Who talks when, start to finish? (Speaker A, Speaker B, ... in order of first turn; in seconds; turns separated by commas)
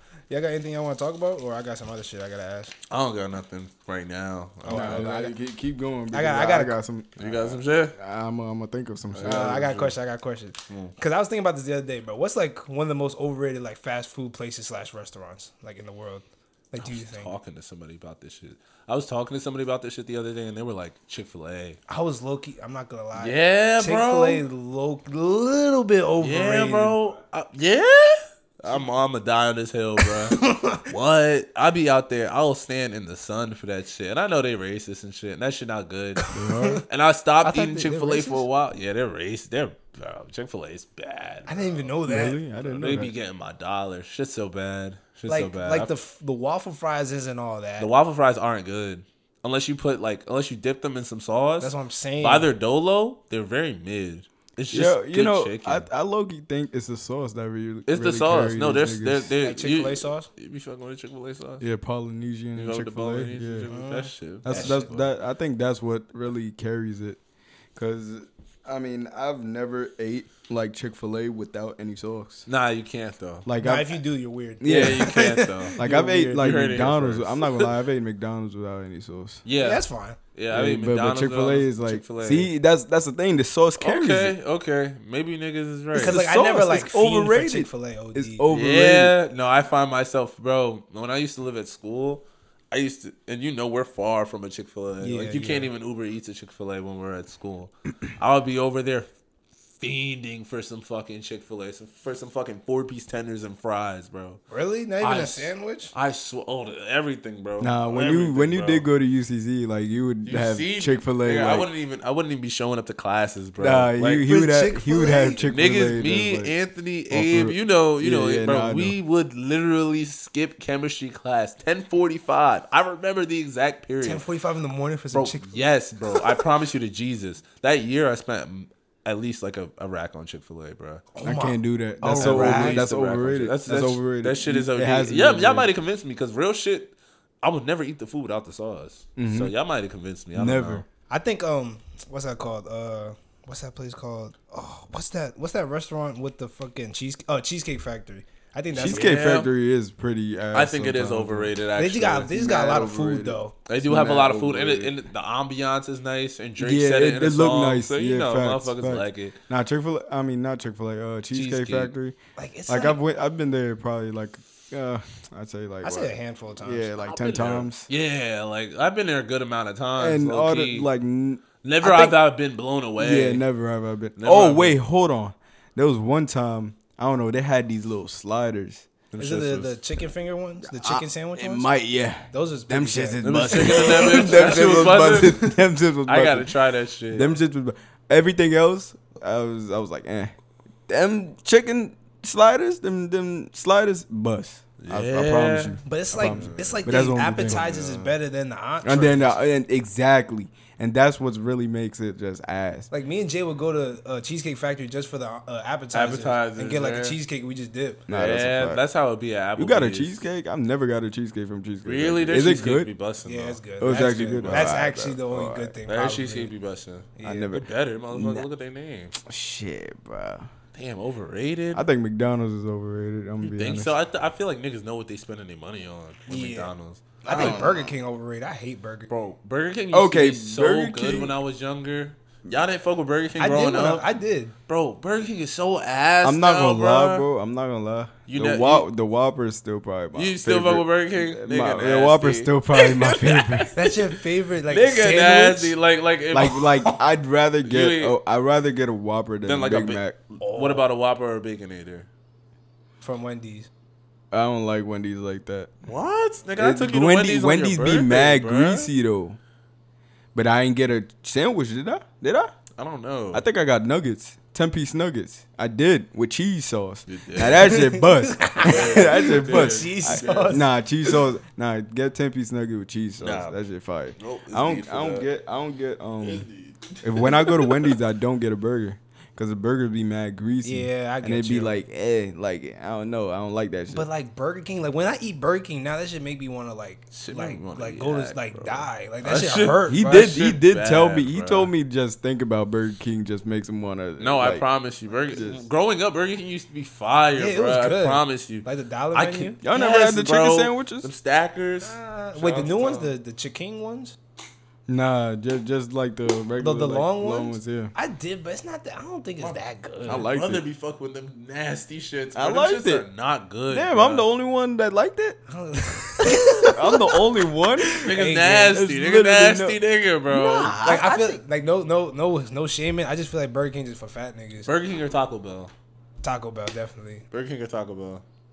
Speaker A: 0.3-2.7, Speaker B: 2.9-5.0, Speaker A: 4.6-5.3, Speaker C: 4.7-9.9, Speaker A: 6.1-6.8, Speaker B: 7.2-7.9, Speaker B: 9.1-9.9, Speaker A: 9.2-17.3, Speaker B: 10.7-10.9, Speaker B: 16.8-21.8, Speaker A: 21.9-27.0, Speaker B: 23.1-24.4, Speaker B: 26.2-36.2, Speaker A: 30.0-30.9, Speaker A: 36.2-36.8, Speaker C: 36.3-36.8, Speaker B: 36.9-41.9, Speaker A: 37.4-38.5, Speaker A: 41.5-42.4, Speaker C: 42.0-43.1, Speaker B: 42.6-45.9, Speaker A: 45.3-47.9, Speaker B: 47.8-55.9, Speaker A: 51.6-52.5, Speaker C: 54.7-59.3, Speaker B: 57.9-61.7, Speaker A: 59.4-60.3, Speaker C: 61.6-63.7, Speaker B: 62.5-65.1, Speaker A: 63.7-64.9, Speaker C: 64.4-67.2, Speaker C: 67.7-72.5, Speaker B: 72.5-73.5, Speaker C: 73.4-74.0, Speaker A: 73.6-76.1, Speaker C: 74.6-75.2, Speaker B: 74.6-77.7, Speaker C: 75.7-79.4, Speaker B: 79.4-82.5, Speaker A: 79.5-80.2, Speaker C: 80.5-84.3, Speaker B: 83.8-86.2, Speaker A: 85.9-88.4, Speaker C: 85.9-89.1, Speaker B: 88.5-99.1, Speaker A: 95.0-95.7, Speaker B: 99.8-104.4, Speaker A: 104.5-105.9, Speaker B: 105.0-108.9, Speaker C: 107.6-111.7, Speaker B: 110.2-114.3, Speaker C: 113.6-116.5, Speaker A: 114.2-115.4, Speaker B: 115.4-124.2, Speaker C: 117.1-119.0, Speaker A: 124.0-125.5, Speaker B: 125.1-131.1, Speaker A: 131.2-132.9, Speaker C: 131.2-135.7, Speaker B: 132.1-140.8, Speaker C: 139.2-139.5, Speaker C: 140.3-140.8, Speaker A: 141.1-149.1, Speaker B: 148.7-149.5, Speaker C: 148.7-151.5, Speaker B: 150.5-152.3, Speaker A: 151.8-153.5, Speaker C: 152.3-154.9, Speaker B: 153.7-159.4, Speaker C: 156.6-162.2, Speaker B: 161.3-161.9, Speaker A: 162.4-163.0, Speaker C: 162.7-167.9, Speaker A: 165.8-166.9, Speaker B: 167.1-170.9, Speaker C: 170.0-171.4, Speaker B: 171.6-173.4, Speaker A: 171.8-172.1, Speaker C: 173.0-178.9, Speaker B: 174.2-174.8, Speaker B: 179.1-179.7, Speaker A: 179.2-181.7, Speaker C: 180.6-186.5, Speaker A: 182.3-184.8, Speaker B: 183.2-187.3, Speaker C: 187.1-190.3, Speaker C: 190.9-197.7, Speaker B: 194.8-198.1, Speaker A: 195.8-199.4, Speaker C: 198.8-202.9, Speaker A: 202.9-208.0, Speaker B: 205.9-207.2, Speaker C: 208.1-208.8, Speaker B: 208.1-210.2, Speaker C: 209.6-212.9, Speaker B: 211.8-213.6, Speaker A: 213.2-216.5, Speaker C: 213.8-215.7, Speaker B: 214.4-214.7, Speaker B: 215.9-219.1, Speaker A: 217.2-217.5, Speaker C: 217.2-218.4, Speaker C: 219.2-220.5, Speaker B: 220.7-221.8, Speaker C: 221.7-223.9, Speaker B: 223.4-227.7, Speaker A: 226.3-229.1, Speaker C: 227.3-227.9, Speaker B: 229.1-234.1, Speaker C: 229.9-231.4, Speaker A: 233.4-234.5, Speaker B: 234.7-237.3, Speaker C: 236.2-243.7, Speaker B: 238.3-238.9, Speaker B: 240.2-247.0, Speaker A: 243.8-245.7, Speaker C: 246.3-250.2, Speaker B: 247.6-248.2, Speaker B: 249.4-252.1, Speaker A: 250.4-250.8, Speaker A: 253.0-253.7, Speaker C: 254.3-255.7, Speaker B: 255.9-258.9, Speaker C: 256.6-259.4, Speaker C: 260.3-262.5, Speaker B: 262.8-263.4, Speaker C: 263.3-276.5, Speaker B: 267.1-267.7, Speaker A: 267.6-270.7, Speaker B: 268.6-270.6, Speaker B: 273.2-273.6, Speaker B: 274.2-275.3, Speaker B: 276.2-277.9, Speaker C: 277.0-284.1, Speaker A: 280.6-281.8, Speaker A: 283.9-290.3, Speaker B: 287.1-291.7, Speaker C: 289.9-294.6, Speaker B: 294.2-303.1, Speaker C: 295.3-295.6, Speaker A: 297.4-299.6, Speaker C: 299.6-301.1, Speaker A: 301.8-304.1, Speaker C: 304.9-307.9, Speaker A: 306.6-310.3, Speaker B: 309.4-314.2, Speaker C: 310.1-310.6, Speaker C: 312.3-313.1, Speaker C: 313.7-315.4, Speaker A: 315.5-317.2, Speaker C: 316.6-318.0, Speaker A: 317.8-318.8, Speaker B: 318.0-320.7, Speaker C: 318.7-321.4, Speaker A: 320.8-324.7, Speaker B: 324.6-325.7, Speaker A: 326.2-327.2, Speaker B: 327.3-328.2